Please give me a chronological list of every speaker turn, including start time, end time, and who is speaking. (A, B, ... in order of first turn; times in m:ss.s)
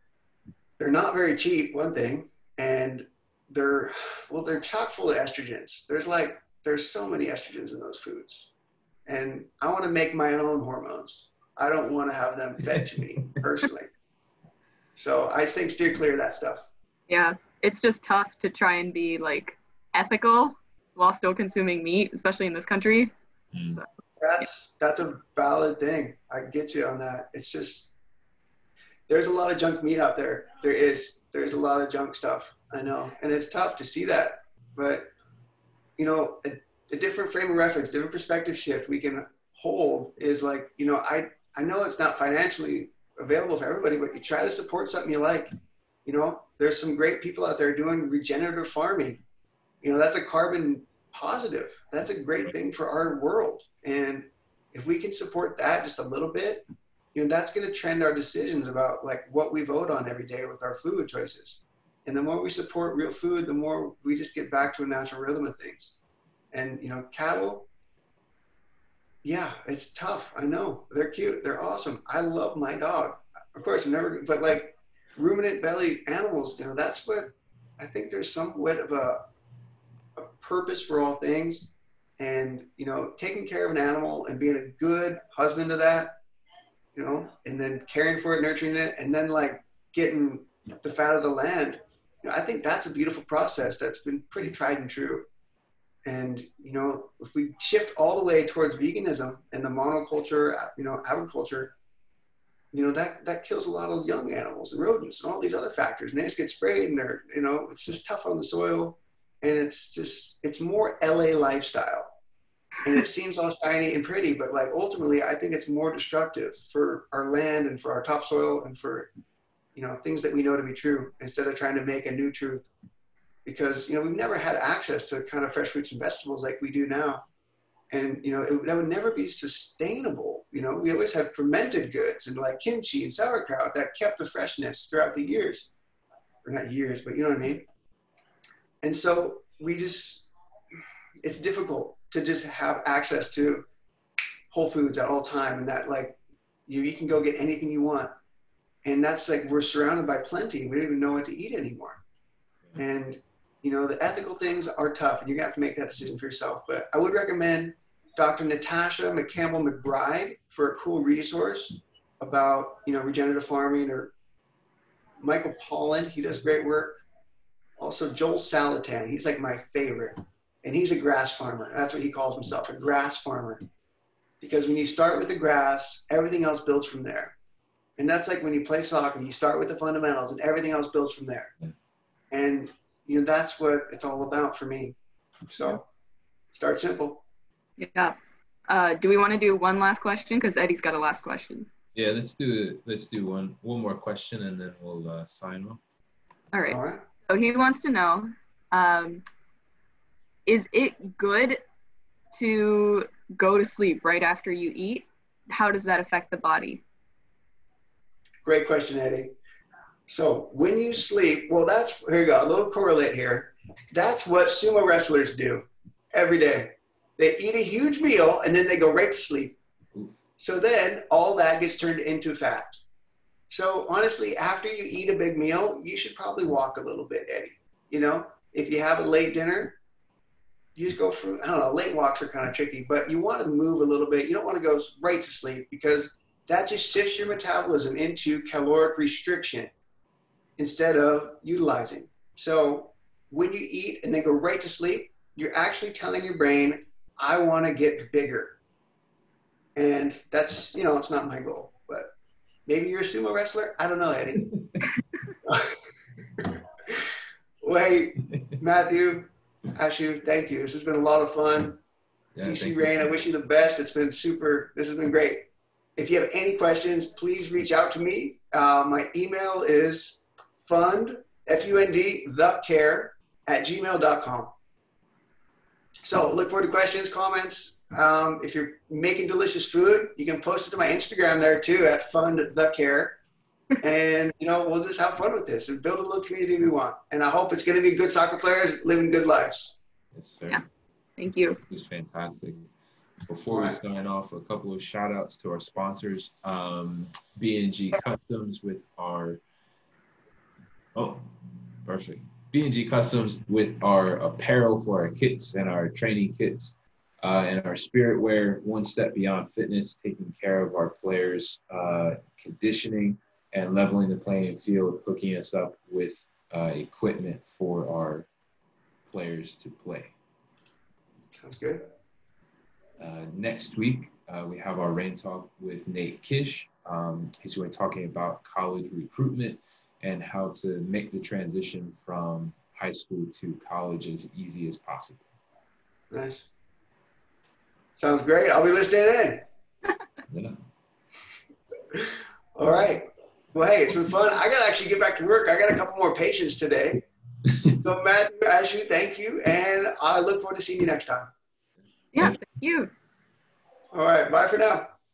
0:00.8-0:08.5 A
0:09.1-0:13.9 A
0:12.7-0:13.4 B
0:15.0-0:16.7 A
0:17.1-0:23.1 C
0:23.5-0:23.8 B
0:24.2-0:27.9 A
0:29.1-0:35.1 A
0:36.0-0:45.5 A
0:46.0-0:49.2 A
0:49.8-1:06.0 A
1:06.5-1:07.7 A
1:09.2-1:19.3 A
1:20.2-1:26.2 A
1:26.9-1:35.2 A
1:36.0-1:41.8 A
1:42.7-1:52.1 A
1:52.8-1:59.1 A
1:59.8-2:02.7 A
2:03.4-2:07.2 A
2:07.9-2:15.7 A
2:16.4-2:17.7 A
2:18.8-2:20.3 A
2:21.2-2:23.6 A
2:24.5-2:28.1 A
2:28.8-2:32.0 A
2:32.8-2:44.1 A
2:45.2-2:47.0 A
2:47.8-2:53.6 A
2:54.4-2:57.4 A
2:58.0-3:01.5 A
3:02.3-3:05.0 A
3:05.5-3:05.9 A
3:06.5-3:07.2 A
3:07.8-3:08.2 C
3:08.7-3:11.7 C
3:12.0-3:15.8 B
3:16.5-3:19.2 C
3:16.7-3:17.0 A
3:20.5-3:21.6 C
3:22.3-3:26.8 C
3:28.4-3:29.3 A
3:30.1-3:39.6 A
3:40.4-3:42.8 A
3:43.5-3:49.8 A
3:50.8-3:59.7 A
4:00.6-4:08.6 A
4:09.8-4:12.1 A
4:12.7-4:14.5 A
4:14.4-4:14.9 B
4:15.4-4:15.8 A
4:16.4-4:21.8 A
4:22.4-4:23.3 B
4:22.4-4:34.5 A
4:36.0-4:43.2 A
4:43.8-4:49.8 A
4:50.1-4:50.6 B
4:51.2-4:51.6 C
4:51.7-4:52.7 B
4:53.3-4:59.4 B
4:53.5-4:53.8 A
5:01.0-5:01.3 B
5:01.8-5:18.3 B
5:19.1-5:20.1 B
5:21.4-5:21.9 A
5:23.0-5:35.3 B
5:36.1-5:36.5 A
5:38.0-5:39.5 A
5:40.3-5:40.6 B
5:41.9-5:47.1 A
5:47.6-5:51.3 A
5:52.1-5:52.9 C
5:53.9-5:54.9 A